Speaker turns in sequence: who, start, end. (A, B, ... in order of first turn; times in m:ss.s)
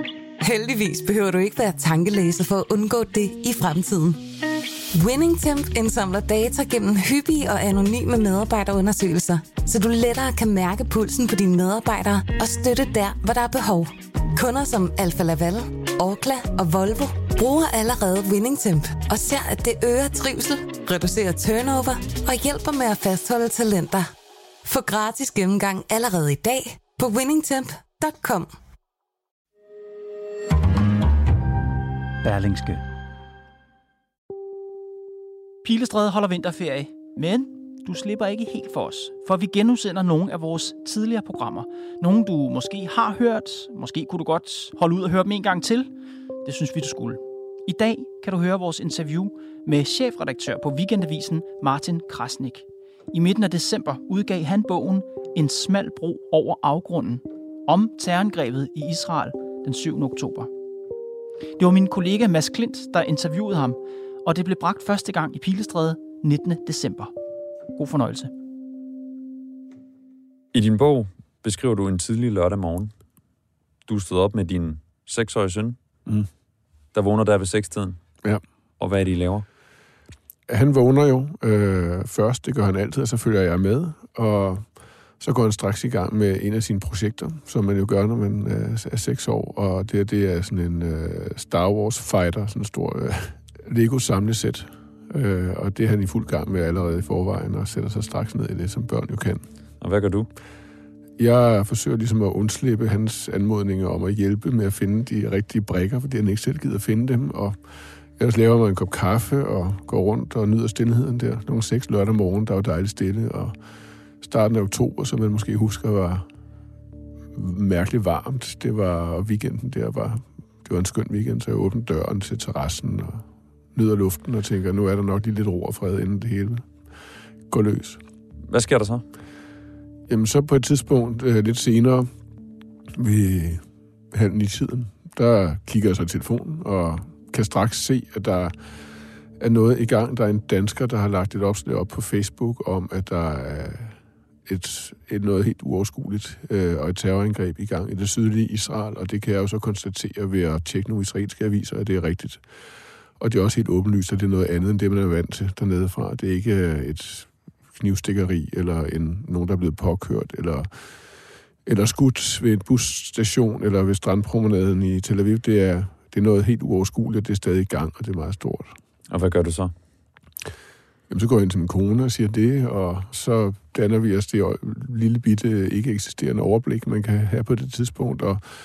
0:00.4-0:04.2 A
0:04.9-0:24.1 A
0:24.6-0:28.5 A
0:32.2-0:32.6 B
0:32.4-0:32.7 C
0:35.6-0:45.9 C
0:46.4-1:00.5 C
1:01.6-1:07.1 C
1:07.8-1:08.3 C
1:10.5-1:12.9 B
1:13.9-1:15.8 B
1:16.9-1:18.0 B
1:18.8-1:19.4 B
1:20.5-1:24.6 D
1:25.2-1:39.4 D
1:39.8-1:40.3 B
1:41.2-1:47.6 D
1:48.2-1:53.5 D
1:54.2-1:56.2 D
1:57.3-2:03.2 D
2:03.7-2:06.6 D
2:07.5-2:08.0 D
2:08.5-2:09.0 B
2:10.1-2:12.1 D
2:12.9-2:18.5 D
2:19.4-2:32.4 D
2:33.2-2:40.7 D
2:41.6-2:48.7 D
2:49.1-2:49.7 B
2:51.1-2:58.4 D